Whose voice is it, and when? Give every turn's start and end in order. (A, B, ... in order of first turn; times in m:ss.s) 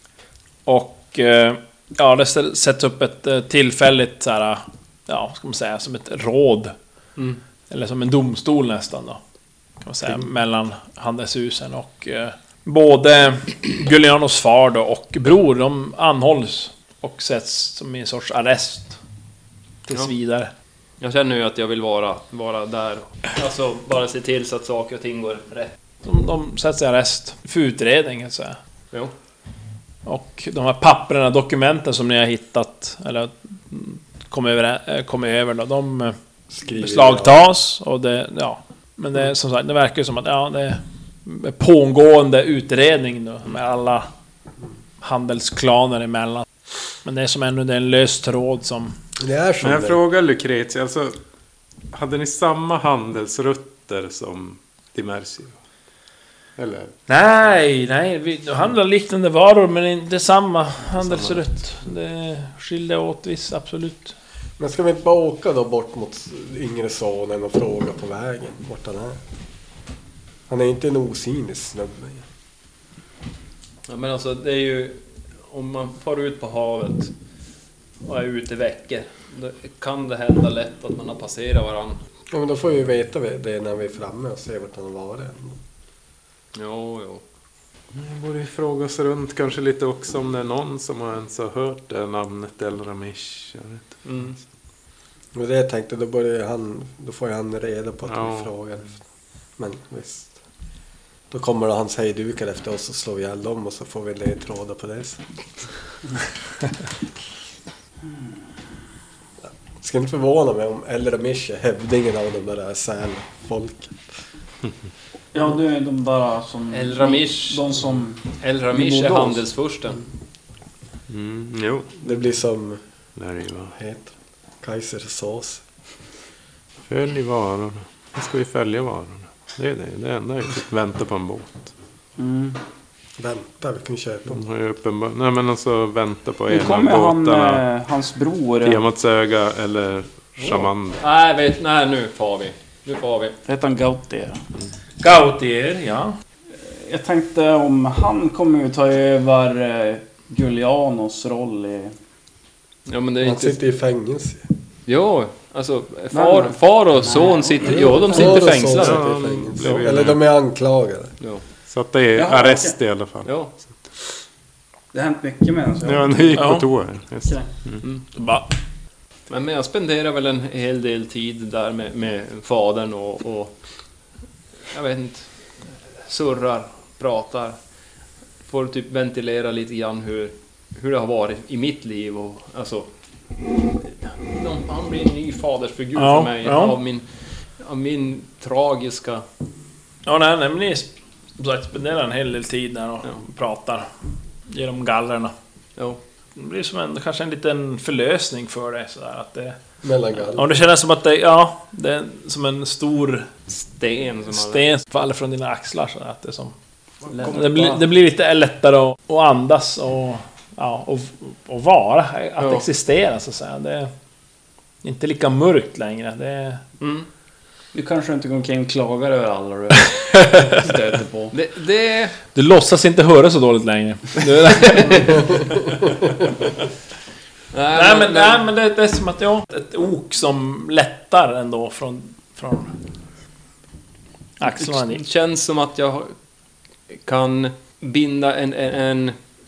0:00.6-0:06.7 A
0:07.7-0:09.2 A
0:09.8-0:19.0 A
0:19.8-0:20.5 A
0:21.0-0:25.7 B
0:26.0-0:28.6 A
0:30.0-0:36.2 A
0:36.5-0:37.4 C
0:36.8-0:44.1 A
0:45.0-0:46.4 A
0:47.0-0:49.0 A
0:49.2-0:50.0 C
0:49.6-0:51.2 D
0:51.9-0:55.5 D
0:56.6-0:56.9 D
0:57.1-1:04.1 A
1:01.0-1:01.5 D
1:04.6-1:09.2 C
1:10.5-1:12.2 C
1:13.8-1:17.1 B
1:18.0-1:22.0 B
1:22.3-1:25.6 C
1:26.5-1:27.2 B
1:27.9-1:34.0 D
1:34.0-1:34.4 B
1:35.3-1:39.0 C
1:38.1-1:38.5 D
1:39.6-1:40.4 C
1:41.3-1:45.2 C
1:49.8-1:54.1 C
1:55.3-1:59.4 E
1:56.7-2:00.0 B
2:01.1-2:02.0 D
2:02.0-2:02.8 C
2:03.2-2:03.7 D
2:03.7-2:05.6 C
2:06.9-2:11.7 D
2:12.2-2:12.6 E
2:13.2-2:14.4 C
2:14.3-2:17.6 D
2:16.5-2:18.8 E
2:18.6-2:21.0 D
2:20.4-2:23.4 B
2:23.4-2:24.4 E
2:25.0-2:26.2 A
2:26.6-2:31.9 E
2:32.9-2:33.6 B
2:33.2-2:34.5 C
2:34.9-2:39.2 B
2:36.1-2:38.5 E
2:37.6-2:41.1 C
2:38.6-2:40.2 D
2:41.7-2:43.4 D
2:42.2-2:42.8 E
2:43.2-2:43.5 B
2:44.9-2:46.5 E
2:45.8-2:47.8 D
2:46.4-2:46.7 A
2:48.0-2:48.5 A
2:49.3-2:53.5 B
2:54.7-2:55.3 B
2:56.0-2:57.6 B
2:58.4-3:02.9 B
3:03.8-3:09.2 B
3:05.9-3:06.8 A
3:10.0-3:13.9 A
3:14.5-3:15.3 A
3:16.4-3:19.6 A
3:19.8-3:20.6 C
3:20.3-3:23.3 A
3:23.5-3:24.6 B
3:24.3-3:26.5 A
3:27.0-3:27.8 B
3:27.2-3:33.9 A
3:32.4-3:32.6 B
3:34.8-3:36.6 A
3:36.8-3:37.1 B
3:37.7-3:41.3 E
3:40.1-3:40.4 A
3:41.3-3:42.1 B
3:42.3-3:45.5 A
3:47.5-3:48.4 B
3:47.7-3:52.7 A
3:54.4-3:55.0 A
3:54.9-3:56.1 B
3:56.9-3:59.2 B